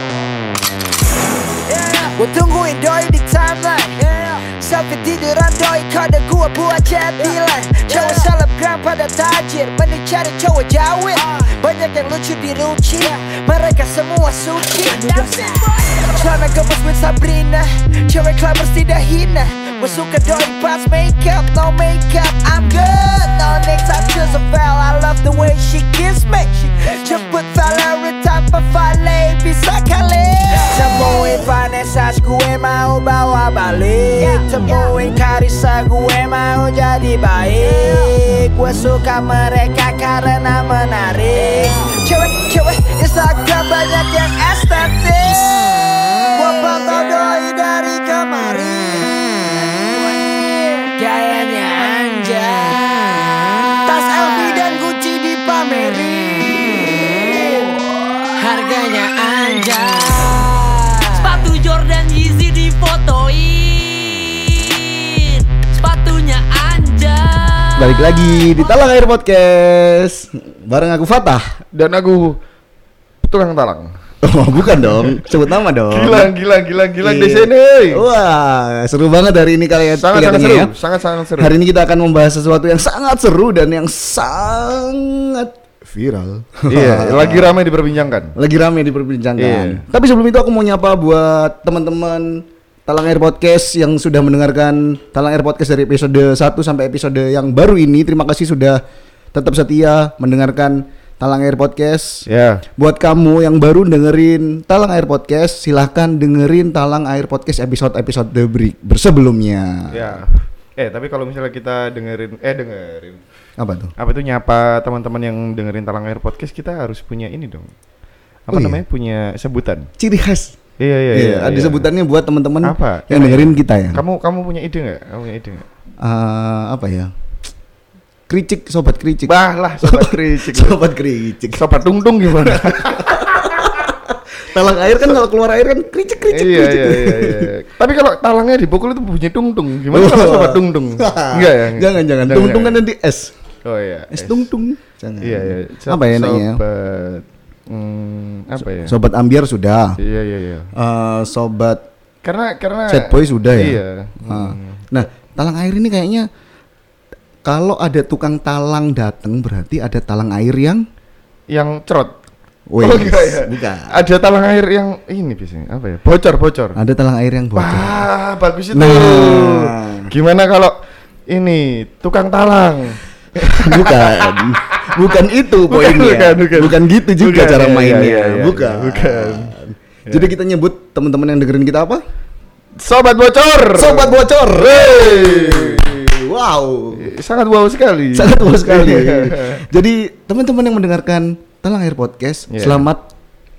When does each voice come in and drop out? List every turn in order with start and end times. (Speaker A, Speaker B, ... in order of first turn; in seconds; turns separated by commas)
Speaker A: 1.7-52.9, Speaker A: 53.8-61.4, Speaker B: 61.2-68.8, Speaker C: 67.8-71.6, Speaker D: 71.7-72.4, Speaker D: 73.2-73.9, Speaker C: 74.2-76.3, Speaker D: 74.7-75.3, Speaker D: 75.9-78.0, Speaker C: 77.0-80.7, Speaker D: 79.9-81.6, Speaker C: 81.4-87.6, Speaker D: 86.7-88.3, Speaker C: 88.4-98.8, Speaker D: 89.4-89.8, Speaker C: 99.3-102.2, Speaker D: 102.3-102.6, Speaker C: 102.8-110.2, Speaker D: 109.9-113.2, Speaker C: 113.6-113.9, Speaker D: 114.0-117.7, Speaker D: 118.5-119.9, Speaker C: 118.5-118.8, Speaker C: 120.0-120.6, Speaker D: 120.8-121.9, Speaker C: 121.1-124.0, Speaker D: 122.6-125.7, Speaker C: 126.0-127.1, Speaker C: 128.3-131.6, Speaker D: 129.3-130.8, Speaker D: 131.5-133.9, Speaker C: 132.4-137.5, Speaker D: 136.3-142.8, Speaker C: 139.9-143.3, Speaker D: 143.7-144.5, Speaker C: 144.1-146.6, Speaker D: 145.2-149.0, Speaker C: 148.6-150.0, Speaker D: 150.0-150.7, Speaker C: 150.8-151.8, Speaker D: 152.2-154.8, Speaker C: 152.9-156.3, Speaker C: 157.4-160.8, Speaker D: 161.5-162.1, Speaker C: 162.7-163.9, Speaker D: 162.8-166.8, Speaker C: 166.8-168.0, Speaker D: 167.6-170.7, Speaker C: 168.7-170.1, Speaker D: 171.3-175.1, Speaker C: 173.5-182.0, Speaker D: 175.6-179.5, Speaker D: 182.8-186.0, Speaker C: 183.8-187.0, Speaker D: 187.0-189.6, Speaker C: 188.1-193.1, Speaker D: 192.5-192.8